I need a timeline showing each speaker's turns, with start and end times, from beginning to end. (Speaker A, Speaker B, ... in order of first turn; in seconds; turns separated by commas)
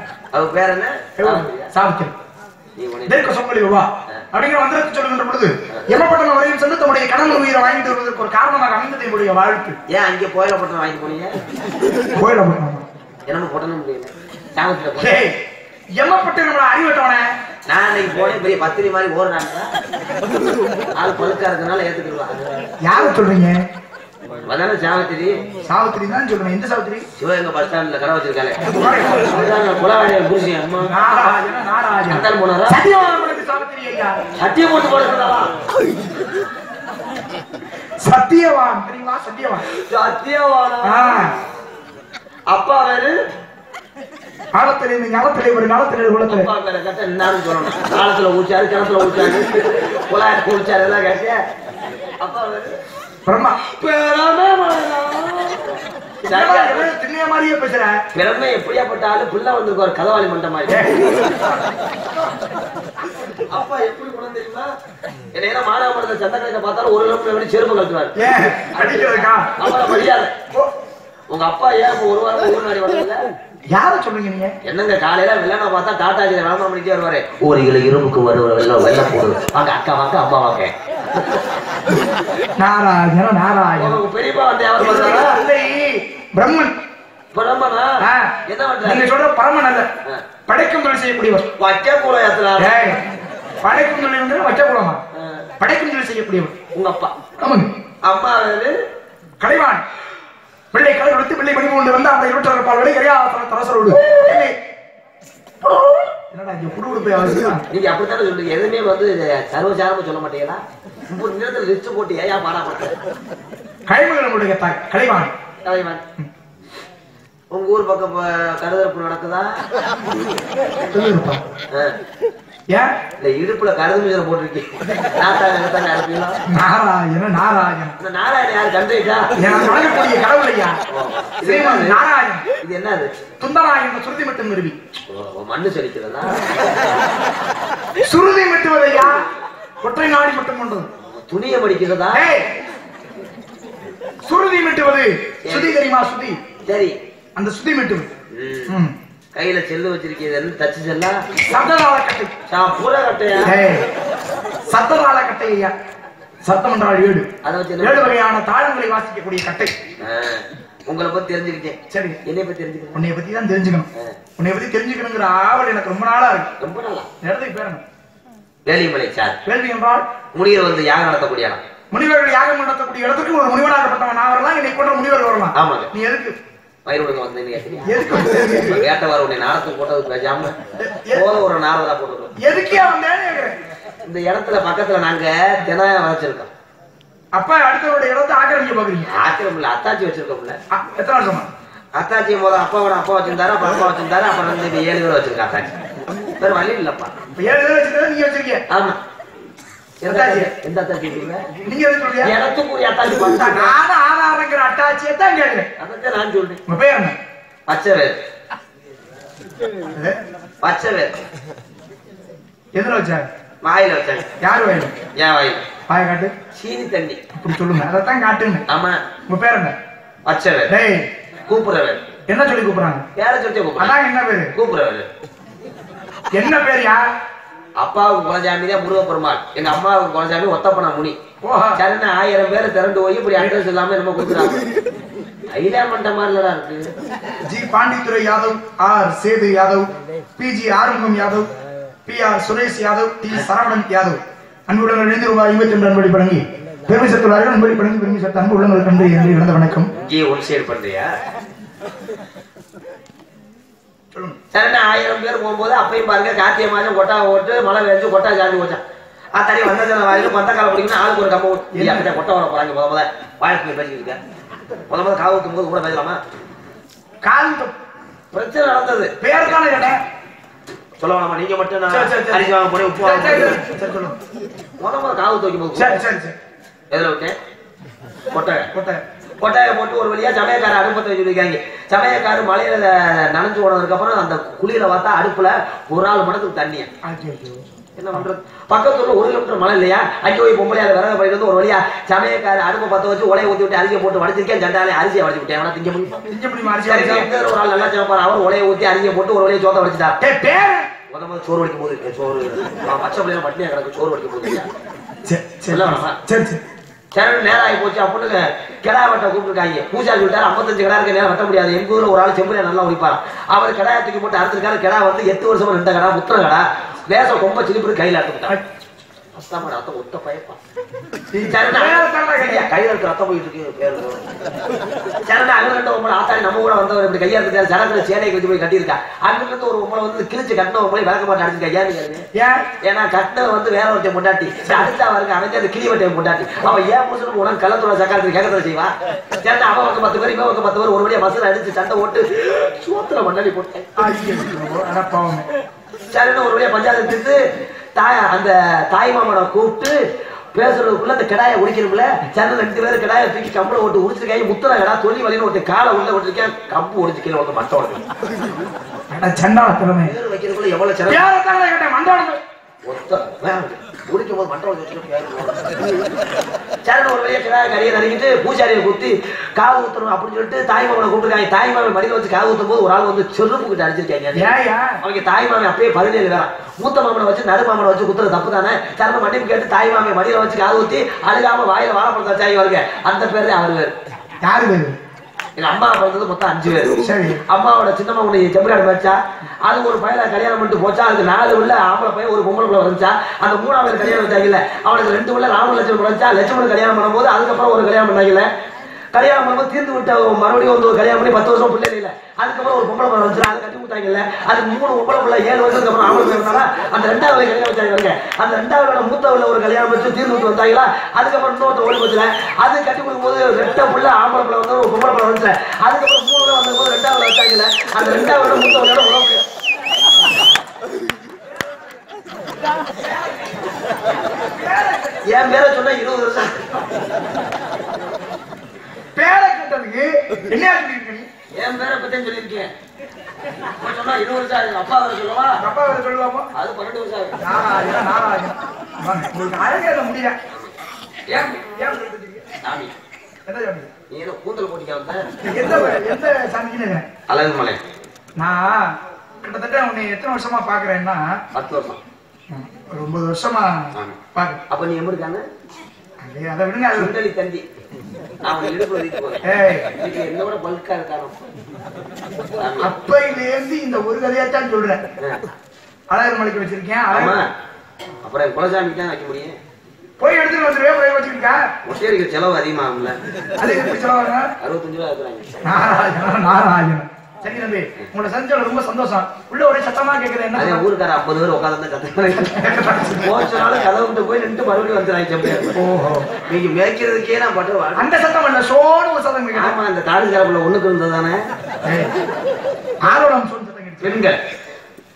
Speaker A: 0.3-1.7, Speaker B: 1.2-2.1, Speaker A: 2.8-3.3, Speaker B: 3.1-9.8, Speaker A: 9.9-11.4, Speaker B: 12.2-12.8, Speaker A: 13.3-15.2, Speaker B: 15.0-15.4, Speaker B: 16.0-17.3, Speaker A: 17.7-19.7, Speaker A: 20.9-23.2, Speaker B: 22.8-23.6, Speaker A: 24.4-25.4, Speaker B: 25.6-27.0, Speaker A: 27.2-31.3, Speaker B: 28.7-29.3, Speaker B: 30.9-34.2, Speaker A: 32.1-32.8, Speaker A: 34.4-35.5, Speaker B: 38.0-39.6, Speaker A: 39.7-41.4, Speaker B: 40.8-41.3, Speaker A: 42.5-43.1, Speaker B: 44.5-46.5, Speaker A: 46.3-51.4, Speaker A: 52.2-52.8, Speaker B: 53.2-53.6, Speaker A: 53.6-56.9, Speaker B: 56.3-58.0, Speaker A: 58.1-60.9, Speaker B: 60.7-61.0, Speaker A: 63.5-64.7, Speaker A: 65.3-68.2, Speaker B: 68.2-69.5, Speaker A: 68.7-70.3, Speaker A: 71.3-73.2, Speaker B: 73.7-74.5, Speaker A: 74.6-81.4, Speaker B: 82.6-84.0, Speaker A: 83.8-85.3, Speaker B: 84.8-86.7, Speaker A: 87.3-89.0, Speaker B: 88.0-88.3, Speaker B: 88.8-89.9, Speaker B: 90.5-91.5, Speaker A: 91.6-92.8, Speaker B: 92.6-93.0, Speaker B: 93.6-95.0, Speaker A: 95.1-95.5, Speaker B: 95.6-96.5, Speaker A: 96.7-97.2, Speaker B: 97.4-97.7, Speaker A: 98.0-98.7, Speaker B: 99.4-99.8, Speaker B: 100.7-104.5, Speaker B: 106.3-107.7, Speaker A: 107.7-113.0, Speaker B: 113.9-115.3, Speaker A: 115.6-116.0, Speaker A: 117.5-119.6, Speaker B: 120.9-121.4, Speaker A: 121.7-122.0, Speaker A: 123.2-126.4, Speaker B: 126.5-128.0, Speaker A: 128.0-129.3, Speaker B: 129.4-130.8, Speaker A: 130.9-132.0, Speaker B: 131.4-132.4, Speaker A: 132.6-133.2, Speaker B: 133.4-134.8, Speaker A: 135.1-136.7, Speaker B: 138.0-139.2, Speaker B: 139.8-140.9, Speaker A: 141.0-142.2, Speaker B: 142.1-142.5, Speaker B: 144.2-146.4, Speaker A: 145.4-145.7, Speaker A: 146.6-147.0, Speaker B: 147.3-148.1, Speaker A: 148.3-148.8, Speaker B: 148.7-148.9, Speaker A: 149.3-151.2, Speaker B: 151.5-152.3, Speaker A: 152.5-153.6, Speaker B: 153.4-153.9, Speaker B: 154.7-155.7, Speaker B: 156.4-157.3, Speaker A: 157.4-158.1, Speaker B: 157.8-159.8, Speaker A: 160.0-163.0, Speaker B: 161.9-162.2, Speaker B: 162.9-166.5, Speaker A: 166.6-167.1, Speaker B: 167.2-167.8, Speaker A: 168.7-169.4, Speaker B: 169.4-170.1, Speaker A: 170.3-171.6, Speaker B: 171.9-176.4, Speaker A: 175.5-175.9, Speaker A: 176.8-177.9, Speaker B: 177.9-178.8, Speaker A: 178.6-180.6, Speaker B: 180.8-181.3, Speaker A: 181.1-182.3, Speaker B: 182.4-183.6, Speaker A: 184.0-186.5, Speaker B: 187.3-189.1, Speaker A: 189.1-190.6, Speaker B: 190.7-191.5, Speaker A: 191.9-195.7, Speaker A: 196.4-197.1, Speaker B: 197.3-198.6, Speaker A: 198.7-199.0, Speaker A: 200.0-201.5, Speaker B: 200.0-200.5, Speaker B: 201.6-202.3, Speaker A: 202.2-203.8, Speaker B: 203.5-205.7, Speaker A: 205.8-206.6, Speaker B: 206.7-207.1, Speaker A: 207.7-208.2, Speaker A: 210.6-211.2, Speaker B: 212.7-213.3, Speaker A: 213.6-214.3, Speaker B: 214.4-214.9, Speaker A: 215.2-215.6, Speaker B: 215.9-216.3, Speaker A: 216.5-217.2, Speaker B: 217.3-218.6, Speaker A: 218.7-219.0, Speaker B: 219.3-219.7, Speaker A: 220.2-220.7, Speaker B: 220.7-221.1, Speaker A: 221.5-222.0, Speaker B: 222.3-223.0, Speaker A: 223.2-223.9, Speaker B: 223.8-224.5, Speaker A: 224.5-225.1, Speaker B: 226.3-227.0, Speaker A: 227.8-231.2, Speaker B: 231.4-231.8, Speaker A: 231.8-234.7, Speaker A: 235.5-236.9, Speaker B: 237.5-241.5, Speaker B: 242.1-249.9, Speaker A: 249.9-251.2, Speaker A: 254.5-258.8, Speaker A: 259.3-264.2, Speaker B: 261.7-262.1, Speaker A: 264.9-266.2, Speaker B: 267.2-267.7, Speaker A: 268.3-269.6, Speaker B: 269.2-270.0, Speaker A: 271.0-273.6, Speaker B: 271.9-274.1, Speaker A: 274.8-276.0, Speaker B: 275.8-276.3, Speaker A: 276.9-277.4, Speaker A: 278.3-278.7, Speaker B: 278.7-279.0, Speaker A: 279.4-286.9, Speaker B: 287.0-287.6, Speaker A: 287.9-296.2, Speaker B: 296.3-297.3, Speaker A: 296.8-300.2, Speaker B: 300.2-300.9, Speaker A: 301.1-304.7, Speaker B: 305.2-306.6, Speaker A: 305.7-306.2, Speaker A: 307.1-318.5, Speaker A: 319.3-320.6, Speaker B: 321.3-322.7, Speaker A: 321.4-324.3, Speaker A: 325.2-332.2, Speaker B: 332.3-332.6, Speaker A: 332.8-343.9, Speaker B: 344.0-345.4, Speaker A: 346.1-347.4, Speaker A: 347.9-350.0, Speaker A: 350.5-358.0, Speaker B: 359.1-360.1, Speaker A: 360.0-361.3, Speaker B: 361.1-362.4, Speaker A: 362.8-366.0, Speaker A: 366.8-383.9, Speaker B: 374.3-375.0, Speaker B: 384.4-384.9, Speaker A: 385.6-387.0, Speaker B: 387.0-387.4, Speaker A: 387.5-398.5, Speaker A: 399.1-419.4, Speaker B: 424.6-425.2, Speaker A: 425.2-426.9, Speaker B: 429.1-431.3, Speaker A: 431.6-432.7, Speaker A: 433.8-435.6, Speaker B: 435.6-436.5, Speaker A: 436.5-437.4, Speaker B: 437.4-440.4, Speaker A: 441.3-441.6, Speaker B: 441.3-442.4, Speaker A: 442.6-442.9, Speaker B: 443.5-443.9, Speaker A: 444.1-445.3, Speaker B: 445.4-447.1, Speaker A: 447.3-447.8, Speaker B: 448.4-451.4, Speaker A: 451.5-452.0, Speaker B: 452.5-454.6, Speaker A: 454.7-455.4, Speaker B: 456.2-457.1, Speaker A: 456.9-457.6, Speaker A: 458.4-461.4, Speaker B: 459.4-459.9, Speaker A: 462.6-462.9, Speaker B: 462.8-465.0, Speaker B: 466.1-467.4, Speaker A: 467.1-467.5, Speaker A: 468.2-469.6, Speaker B: 470.2-471.6, Speaker A: 471.8-473.2, Speaker B: 473.6-474.5, Speaker A: 474.6-475.5, Speaker B: 475.6-480.8, Speaker A: 480.5-482.6, Speaker B: 482.5-483.3, Speaker A: 483.2-485.7, Speaker B: 485.7-486.3, Speaker A: 486.5-488.1, Speaker B: 487.9-489.8, Speaker A: 489.5-491.4, Speaker B: 491.8-492.1, Speaker B: 493.0-494.2, Speaker A: 494.0-494.4